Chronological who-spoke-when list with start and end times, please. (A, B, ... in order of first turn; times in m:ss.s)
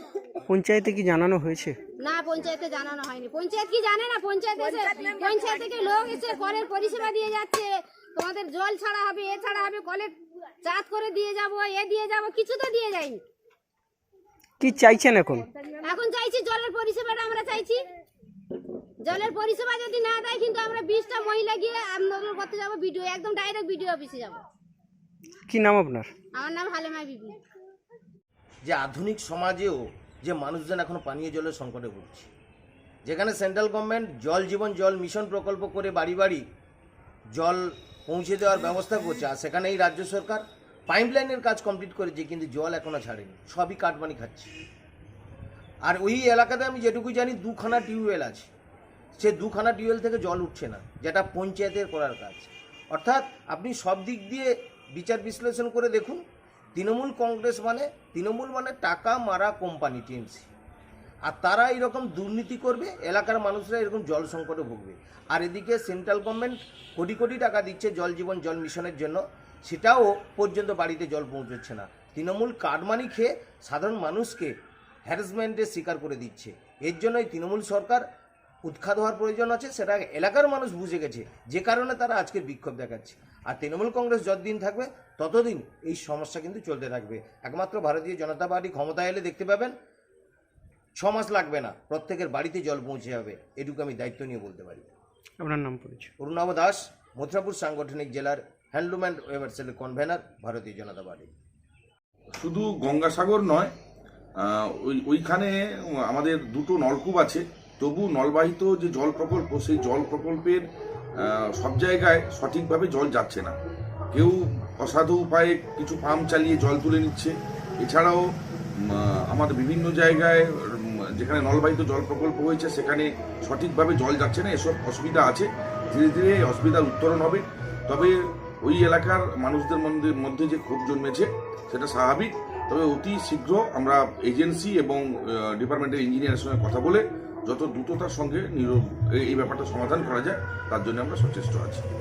0:00.5-0:01.8 A
0:02.0-0:13.2 B
0:14.6-0:15.4 A
0:15.8-0:17.8 B
0:19.0-0:24.4 B
0:25.5-0:26.1 A
0:26.3-0:27.4 B
0:28.6-0:32.3 C
0:33.0-0:36.4 C
0:37.3-0:44.5 C
0:45.8-0:48.5 C
0:49.2-0:56.2 C
0:56.7-1:00.5 C
1:01.2-1:14.5 C
1:15.0-1:18.0 C
1:18.6-1:29.7 C
1:31.0-1:34.9 C
1:35.4-1:36.1 A
1:36.2-1:41.3 C
1:42.4-1:43.7 D
1:45.0-1:45.5 D
1:46.1-1:50.6 D
1:51.6-1:53.5 D
1:54.1-1:58.2 D
1:59.3-2:00.4 D
2:01.2-2:08.1 D
2:08.7-2:15.0 D
2:15.6-2:18.8 D
2:19.3-2:21.8 D